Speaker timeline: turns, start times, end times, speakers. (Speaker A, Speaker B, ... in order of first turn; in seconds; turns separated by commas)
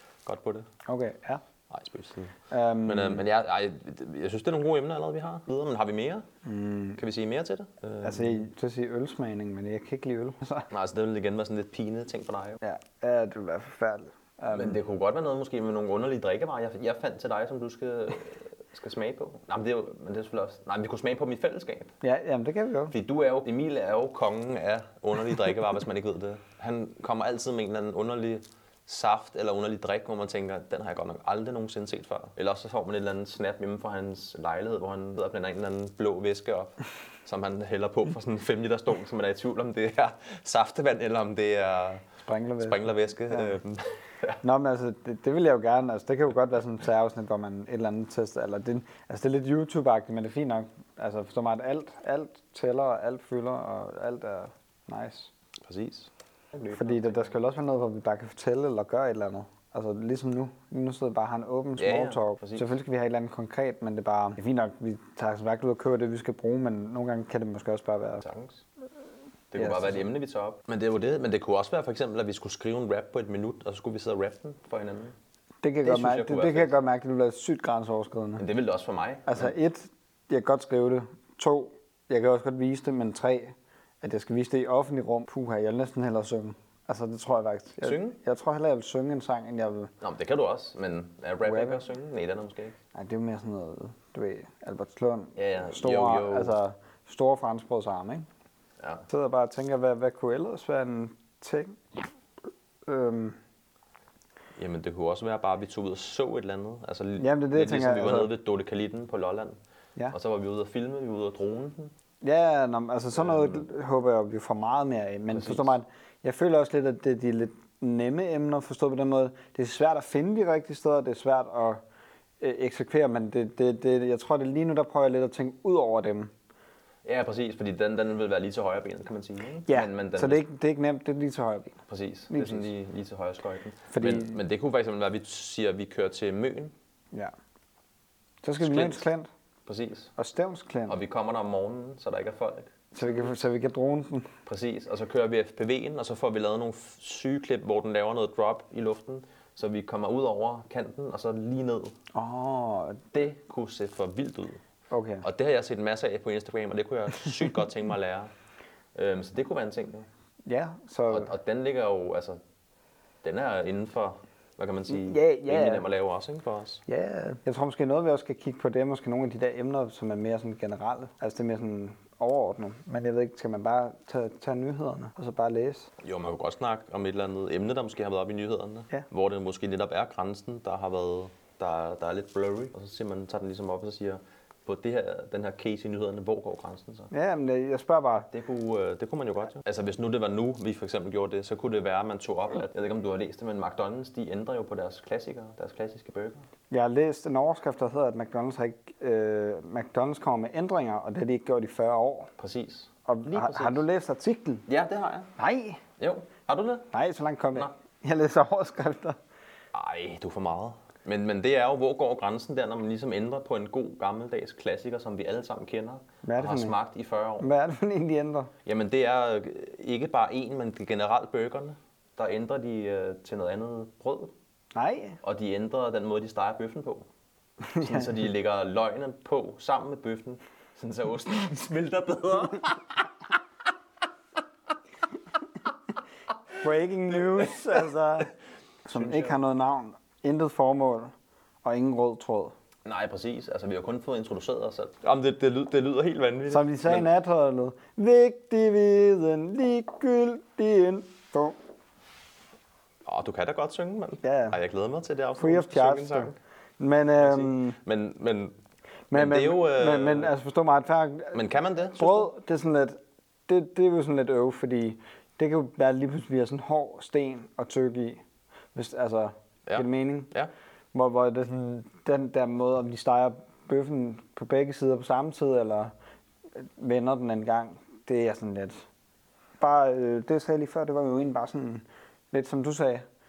Speaker A: 0.3-0.7, Speaker B: 0.9-1.4, Speaker A: 1.7-6.3, Speaker B: 2.5-3.3, Speaker B: 6.5-7.0, Speaker A: 7.0-8.4, Speaker B: 8.0-10.7, Speaker A: 10.7-12.6, Speaker B: 12.6-14.8, Speaker A: 14.5-21.9, Speaker B: 22.0-22.9, Speaker A: 22.9-42.1, Speaker B: 42.3-43.5, Speaker A: 42.6-44.4, Speaker B: 44.4-55.3, Speaker A: 55.7-57.4, Speaker B: 56.7-68.2, Speaker A: 61.8-62.8, Speaker A: 68.2-68.7, Speaker A: 69.5-75.1, Speaker B: 69.6-70.0, Speaker B: 75.6-78.4, Speaker A: 75.8-76.8, Speaker A: 78.4-79.5, Speaker B: 79.3-89.9, Speaker A: 87.8-88.2, Speaker A: 90.0-92.8, Speaker B: 91.4-91.8, Speaker B: 92.9-98.3, Speaker A: 95.4-96.6, Speaker A: 98.8-99.1, Speaker B: 99.1-101.8, Speaker B: 102.9-103.4, Speaker A: 104.6-109.6, Speaker B: 107.2-108.3, Speaker A: 110.1-111.9, Speaker B: 112.2-121.8, Speaker A: 113.2-113.6, Speaker A: 115.3-115.7, Speaker B: 122.4-126.3, Speaker A: 127.0-130.4, Speaker B: 129.7-131.8, Speaker A: 131.9-136.7, Speaker B: 132.3-132.7, Speaker B: 133.9-134.4, Speaker B: 138.4-139.3, Speaker A: 138.6-139.1, Speaker A: 139.7-140.1, Speaker B: 140.2-141.0, Speaker A: 140.9-143.1, Speaker B: 142.9-144.3, Speaker A: 144.5-152.0, Speaker B: 152.1-153.0, Speaker A: 153.1-154.6, Speaker B: 154.9-155.2, Speaker A: 155.2-158.3, Speaker A: 158.9-160.1, Speaker B: 160.4-161.3, Speaker A: 161.1-162.4, Speaker A: 163.2-166.8, Speaker B: 164.9-165.8, Speaker B: 166.9-175.9, Speaker A: 176.0-187.1, Speaker B: 187.1-188.3, Speaker A: 188.3-196.4, Speaker B: 196.7-202.3, Speaker A: 202.4-203.8, Speaker B: 203.1-204.7, Speaker A: 204.7-205.3, Speaker B: 205.4-205.8, Speaker A: 206.0-206.9, Speaker B: 206.9-209.2, Speaker A: 209.7-217.5, Speaker B: 216.2-216.8, Speaker B: 217.4-218.5, Speaker A: 218.7-224.3, Speaker B: 224.8-225.2, Speaker A: 225.2-227.1, Speaker B: 227.7-228.2, Speaker A: 227.8-232.9, Speaker B: 236.6-238.3, Speaker B: 238.8-241.1, Speaker A: 238.9-239.4, Speaker B: 241.6-242.5, Speaker A: 242.8-247.1, Speaker B: 246.5-251.6, Speaker A: 253.1-256.4, Speaker B: 254.2-254.6, Speaker B: 255.4-257.8, Speaker A: 257.2-258.5, Speaker B: 259.1-268.2, Speaker A: 259.1-260.3, Speaker A: 261.3-262.3, Speaker B: 268.8-270.3, Speaker A: 269.7-270.5, Speaker B: 270.9-275.9, Speaker B: 276.6-278.9, Speaker B: 279.6-283.0